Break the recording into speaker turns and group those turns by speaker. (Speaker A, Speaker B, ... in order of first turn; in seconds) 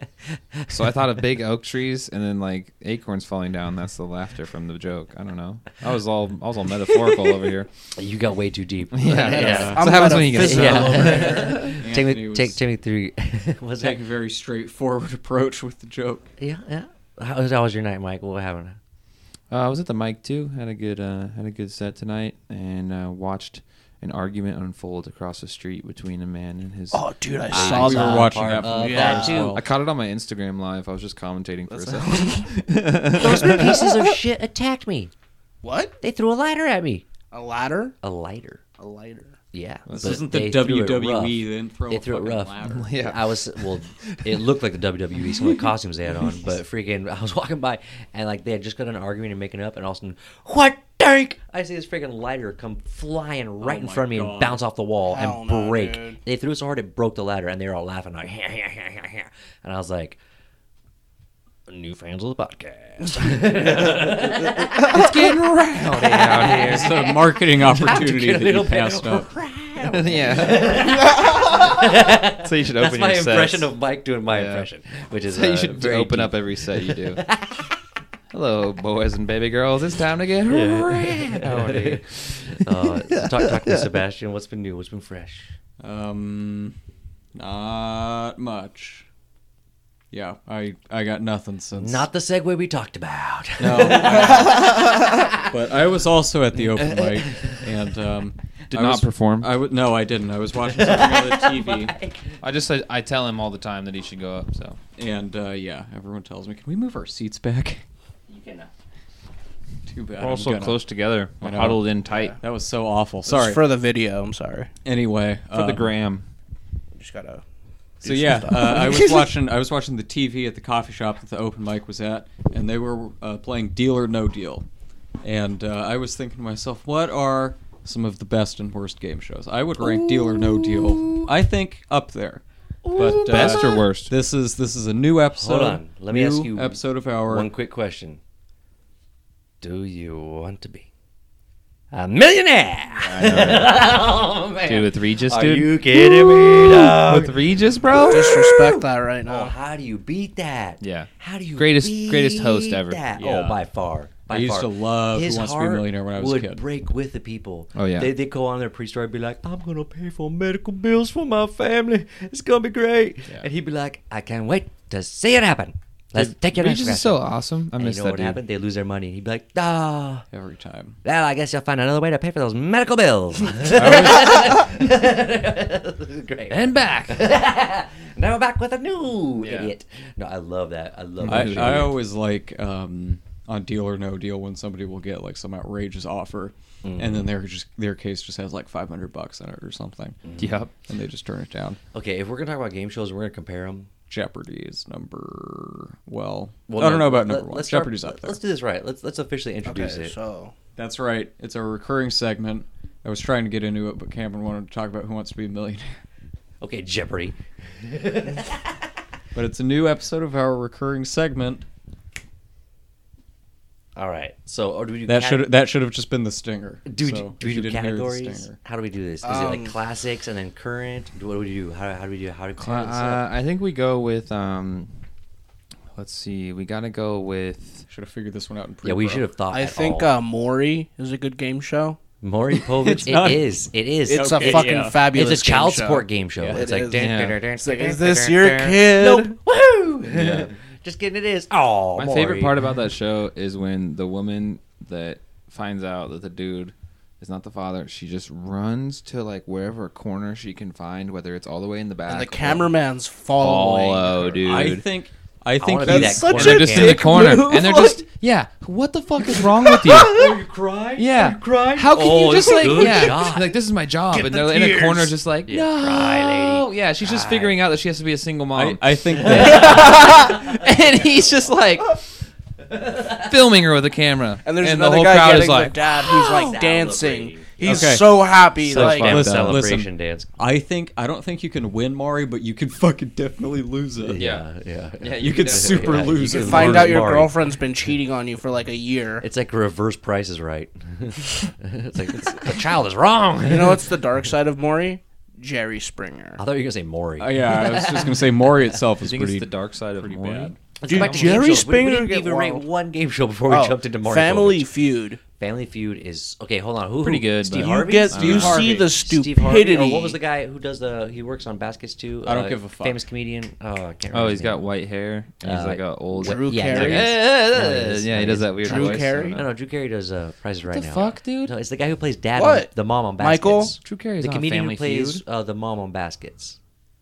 Speaker A: 0.3-0.8, 7.9-14.0, 16.4-18.8, 27.5-29.6, 33.1-35.1, 36.0-37.0, 38.0-38.6, 39.5-60.2, 61.7-65.3, 65.8-77.7, 80.5-85.5, 91.8-95.3, 96.7-97.7, 100.7-102.3, 108.3-108.7, 129.8-131.2, 132.8-133.8, 135.4-138.2, 139.6-140.9, 141.9-147.4, 148.0-148.6, 149.2-167.2, 167.7-170.2, 171.0-181.9, 186.8-187.3, 190.2-190.6, 191.9-193.9, 196.7-200.1, 206.6-208.8, 214.0-215.4, 216.8-223.2, 228.8-230.1, 232.2-242.6, 255.6-258.0, 259.6-263.6, 264.1-267.6, 269.1-270.8, 272.7-273.3, 276.1-280.3, 284.0-287.4, 289.2-293.9, 296.4-298.3, 300.8-304.7, 305.4-314.7, 315.4-326.6
Speaker B: 0.7-7.7, 8.9-11.7, 19.5-27.0, 29.4-33.8, 39.9-40.2, 42.7-44.3, 64.7-67.0, 69.8-73.7, 74.3-74.7, 75.3-77.2, 78.3-83.9, 98.7-99.5, 102.4-104.8, 110.2-112.4, 115.5-116.2, 133.0-134.1, 143.0-144.0, 144.6-148.6, 150.8-153.0, 157.7-158.1, 166.2-168.4, 176.5-177.2, 179.4-179.7, 181.2-182.0, 190.4-190.7, 222.6-224.9, 225.9-227.9, 236.9-237.4, 240.1-240.5, 241.9-252.7, 253.4-254.8, 256.2-260.4, 261.0-272.0, 273.1-276.5, 284.1-284.4, 285.0-286.2, 299.0-301.8, 307.0-308.7, 314.1-319.4, 320.7-321.5, 323.8-325.2
Speaker C: 9.3-11.5, 26.9-29.5, 31.7-32.6, 33.3-33.8, 35.6-35.9, 37.3-38.0, 38.8-39.4, 55.0-56.2, 63.0-65.1, 113.2-114.7, 117.0-117.4, 118.0-119.3, 148.0-149.5, 199.7-200.5, 219.2-219.8, 229.5-232.0, 234.1-239.3, 252.1-254.7, 255.8-258.0, 262.4-263.1, 274.4-279.5, 286.3-289.2, 293.4-296.4, 300.9-302.6, 303.5-305.2, 307.5-310.2, 316.2-317.2, 318.6-319.5, 322.4-323.7
Speaker D: 9.3-12.6, 13.8-16.3, 27.5-29.6, 39.9-42.9, 53.6-54.6, 66.5-69.3, 85.8-86.8, 87.3-89.0, 90.1-92.1, 93.6-101.9, 105.0-107.8, 109.9-110.8, 111.4-113.6, 114.8-115.9, 118.0-124.7, 125.2-132.4, 132.9-137.5, 153.2-153.6, 154.3-156.6, 170.3-171.0, 173.7-174.5, 181.3-190.2, 190.9-191.8, 194.1-198.4, 200.8-206.0, 209.3-211.7, 215.1-218.6, 227.9-229.3, 232.8-235.0, 236.4-236.7, 254.4-256.9, 268.5-269.9, 277.6-284.2, 285.2-287.1, 297.2-300.6, 312.2-313.0